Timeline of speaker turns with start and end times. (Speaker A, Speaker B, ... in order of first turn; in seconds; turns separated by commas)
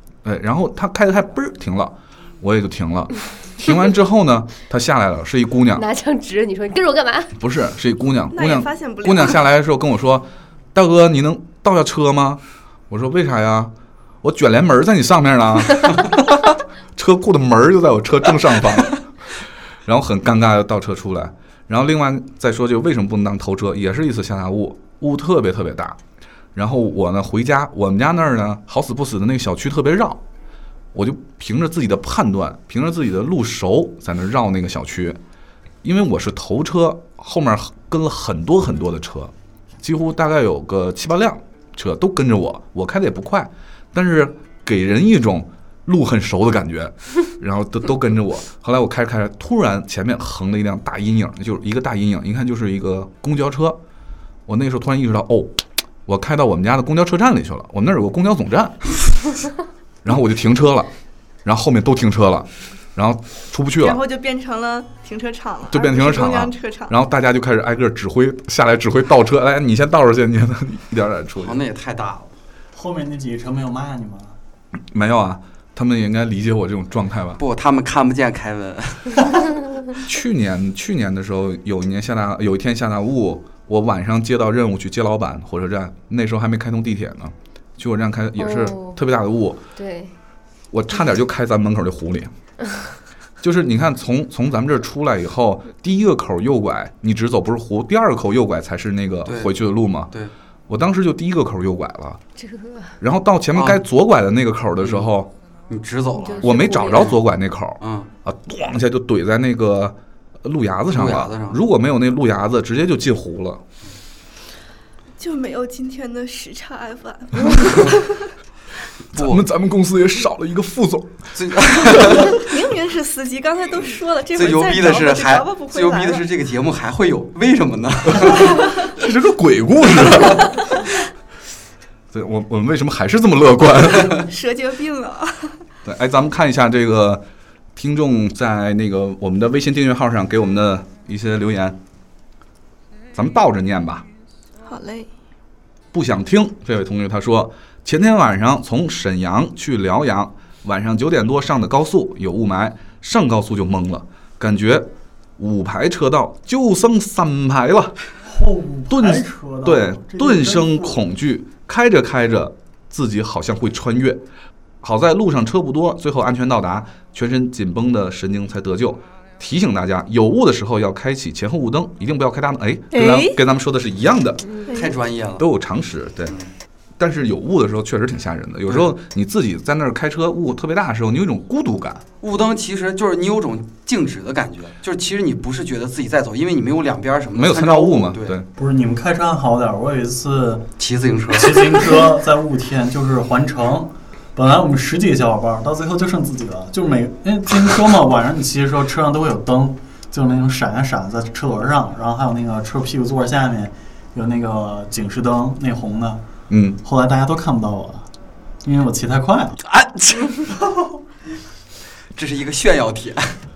Speaker A: 0.2-5.9, Speaker B: 5.7-7.3, Speaker A: 7.4-19.1, Speaker C: 8.3-9.4, Speaker A: 19.9-26.0, Speaker A: 26.6-30.2, Speaker A: 30.9-35.2, Speaker A: 35.8-53.8, Speaker A: 54.5-58.9, Speaker A: 60.0-60.9, Speaker A: 61.4-64.0, Speaker C: 63.8-66.9, Speaker A: 65.7-71.6, Speaker D: 71.4-72.3, Speaker E: 72.7-74.4, Speaker A: 74.9-77.4, Speaker D: 77.4-79.6, Speaker A: 80.0-89.6, Speaker B: 88.4-89.0, Speaker B: 89.8-90.1, Speaker A: 90.7-92.3, Speaker A: 93.4-100.1, Speaker D: 99.2-99.6, Speaker A: 100.7-102.2, Speaker B: 102.4-103.0, Speaker A: 103.0-105.3, Speaker D: 103.5-103.8, Speaker D: 104.8-105.1, Speaker D: 105.7-107.2, Speaker B: 106.2-107.1, Speaker A: 106.4-113.6, Speaker D: 107.8-108.1, Speaker D: 110.9-111.6, Speaker C: 115.2-118.1, Speaker D: 119.1-119.4, Speaker A: 119.1-121.3, Speaker D: 121.3-122.4, Speaker A: 122.0-122.3, Speaker C: 122.4-126.2, Speaker D: 124.3-128.8, Speaker A: 128.9-130.8, Speaker A: 132.1-134.2, Speaker C: 134.3-135.6, Speaker A: 135.8-137.2, Speaker A: 137.8-141.8, Speaker A: 143.1-144.1, Speaker C: 144.6-145.1, Speaker A: 145.9-157.9, Speaker E: 158.2-161.0, Speaker A: 158.9-164.2, Speaker A: 164.8-174.4, Speaker C: 172.9-173.4, Speaker C: 174.7-174.9, Speaker D: 174.7-175.4, Speaker A: 175.4-176.3, Speaker A: 177.0-182.0, Speaker D: 178.7-178.9, Speaker D: 182.2-188.4, Speaker A: 187.3-188.5, Speaker E: 188.6-190.7, Speaker D: 190.8-192.1, Speaker E: 191.3-206.2, Speaker A: 206.5-206.8, Speaker E: 206.8-208.1, Speaker E: 208.6-209.6, Speaker D: 209.7-210.4, Speaker E: 210.5-210.9, Speaker D: 212.1-213.4